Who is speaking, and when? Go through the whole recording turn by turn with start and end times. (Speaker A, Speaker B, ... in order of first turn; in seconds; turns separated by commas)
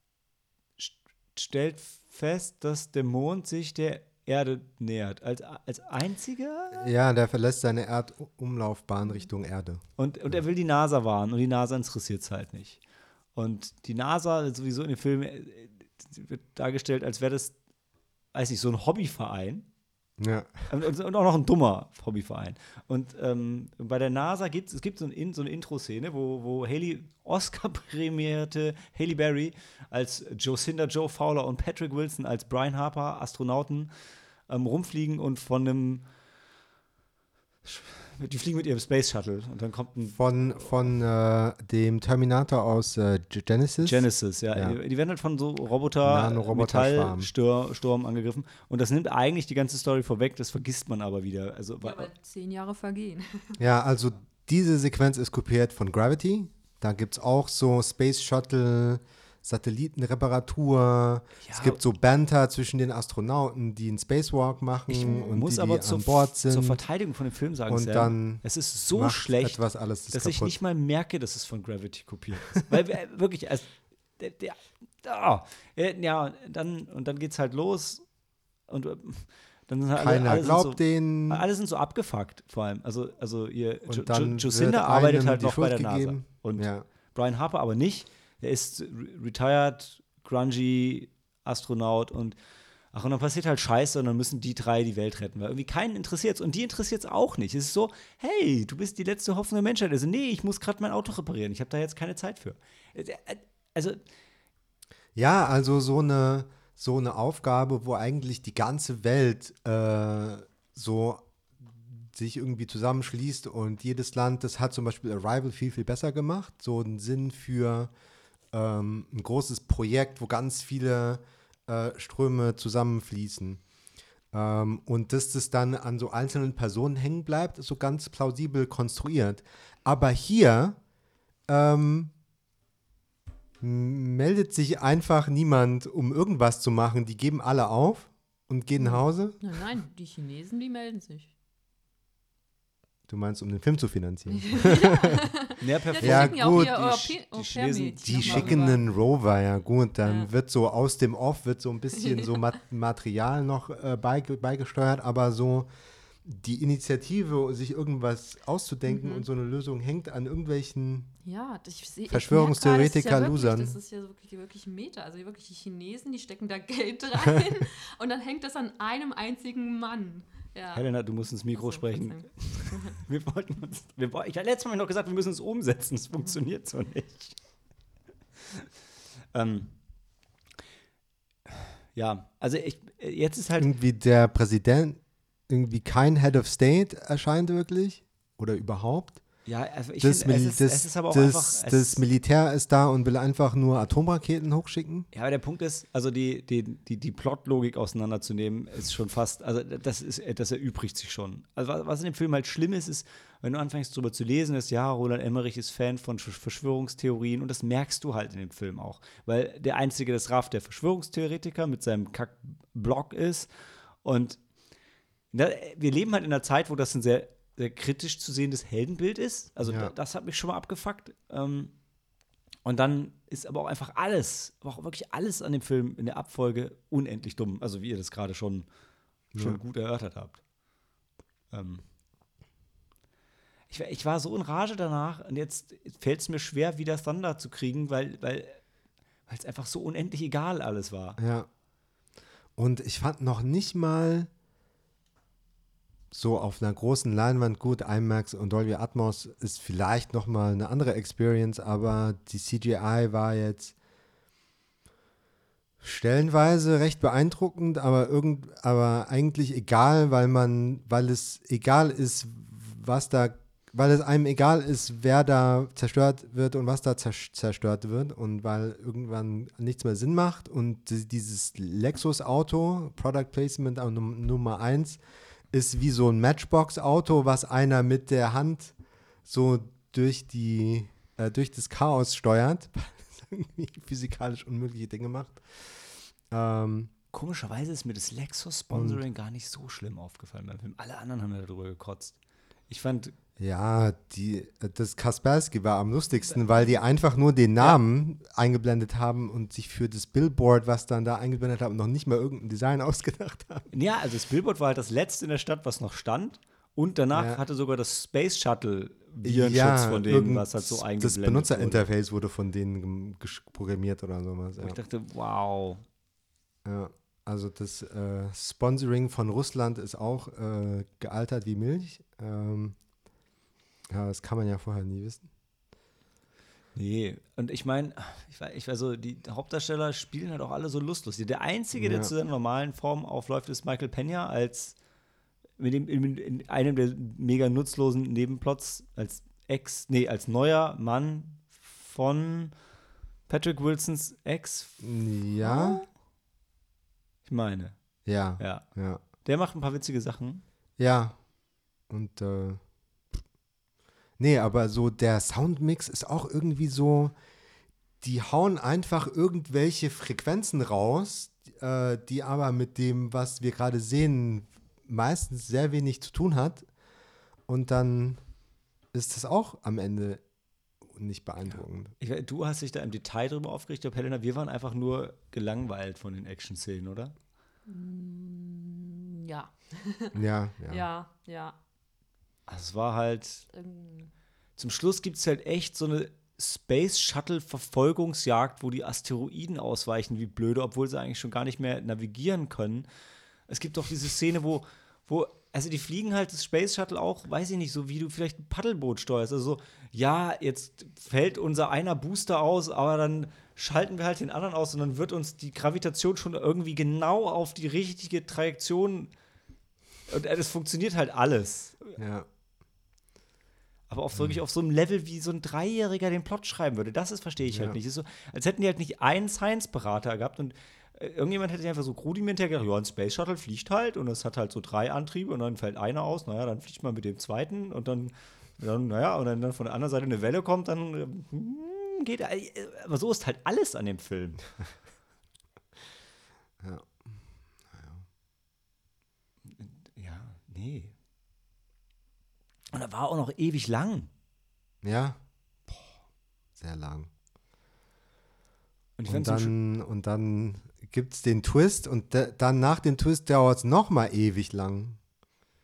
Speaker A: 0.8-6.9, Speaker B: 6.7-9.8, Speaker A: 10.0-12.8, Speaker A: 13.3-17.6, Speaker A: 18.3-19.7, Speaker B: 20.2-20.5, Speaker A: 20.7-36.1, Speaker A: 37.6-40.9, Speaker B: 40.1-44.8, Speaker A: 43.8-52.1, Speaker B: 46.0-47.3, Speaker C: 51.8-53.6, Speaker B: 53.6-66.8, Speaker A: 61.4-61.8, Speaker A: 64.9-78.1, Speaker C: 65.0-65.4, Speaker B: 67.7-70.5, Speaker A: 78.7-92.4, Speaker B: 80.0-81.4, Speaker B: 83.9-86.9, Speaker A: 92.9-104.0, Speaker B: 105.2-117.9, Speaker B: 118.5-123.6, Speaker B: 124.3-130.8, Speaker B: 131.5-132.1, Speaker B: 133.6-139.4, Speaker C: 138.8-141.3, Speaker B: 143.1-145.3, Speaker C: 144.3-148.8, Speaker A: 145.6-148.7, Speaker B: 146.0-146.8, Speaker B: 148.0-155.7, Speaker C: 151.9-152.4, Speaker B: 156.2-161.1, Speaker C: 158.9-159.3, Speaker C: 161.2-170.9, Speaker B: 162.1-163.8, Speaker A: 170.7-177.4, Speaker C: 171.5-173.0, Speaker A: 179.3-179.8, Speaker A: 181.9-183.7, Speaker B: 183.6-189.2, Speaker A: 189.5-192.0, Speaker B: 190.0-195.1, Speaker A: 195.1-214.4, Speaker A: 215.3-221.7, Speaker B: 219.6-219.9, Speaker A: 222.7-228.7, Speaker B: 229.3-229.6, Speaker A: 229.3-230.4, Speaker A: 231.5-231.8, Speaker A: 233.7-238.6, Speaker A: 239.3-241.2, Speaker B: 241.2-241.5, Speaker B: 242.6-244.3, Speaker B: 246.1-253.8, Speaker B: 255.8-275.0, Speaker B: 275.5-278.8, Speaker B: 279.3-286.9, Speaker A: 287.1-292.2, Speaker B: 288.7-289.0, Speaker A: 292.7-293.1, Speaker B: 293.4-303.7, Speaker A: 303.7-311.9, Speaker B: 307.1-307.4, Speaker B: 309.2-314.8, Speaker A: 314.6-315.8, Speaker B: 316.6-322.8, Speaker B: 323.9-325.3, Speaker A: 326.8-334.8, Speaker B: 331.8-332.1, Speaker A: 335.6-342.5, Speaker A: 343.3-344.8, Speaker B: 344.8-345.9, Speaker A: 345.4-345.9, Speaker A: 347.2-350.4, Speaker B: 348.1-349.0, Speaker B: 350.8-351.2, Speaker B: 351.9-352.6, Speaker B: 354.2-357.1, Speaker B: 358.0-366.7, Speaker B: 367.5-368.2, Speaker B: 368.9-370.2, Speaker B: 370.8-371.9, Speaker A: 372.0-377.1, Speaker C: 377.7-380.2, Speaker B: 380.1-380.9, Speaker C: 380.7-381.6, Speaker A: 382.5-383.5, Speaker C: 383.5-384.1, Speaker A: 384.6-392.9, Speaker A: 393.5-409.1, Speaker A: 410.1-412.0, Speaker B: 412.0-412.3, Speaker A: 413.9-434.4, Speaker B: 417.5-417.8, Speaker B: 436.6-437.1, Speaker B: 437.7-438.0, Speaker A: 439.5-440.9, Speaker A: 442.7-444.1, Speaker B: 444.8-446.0, Speaker B: 446.6-447.1, Speaker A: 449.0-449.5, Speaker B: 449.1-455.0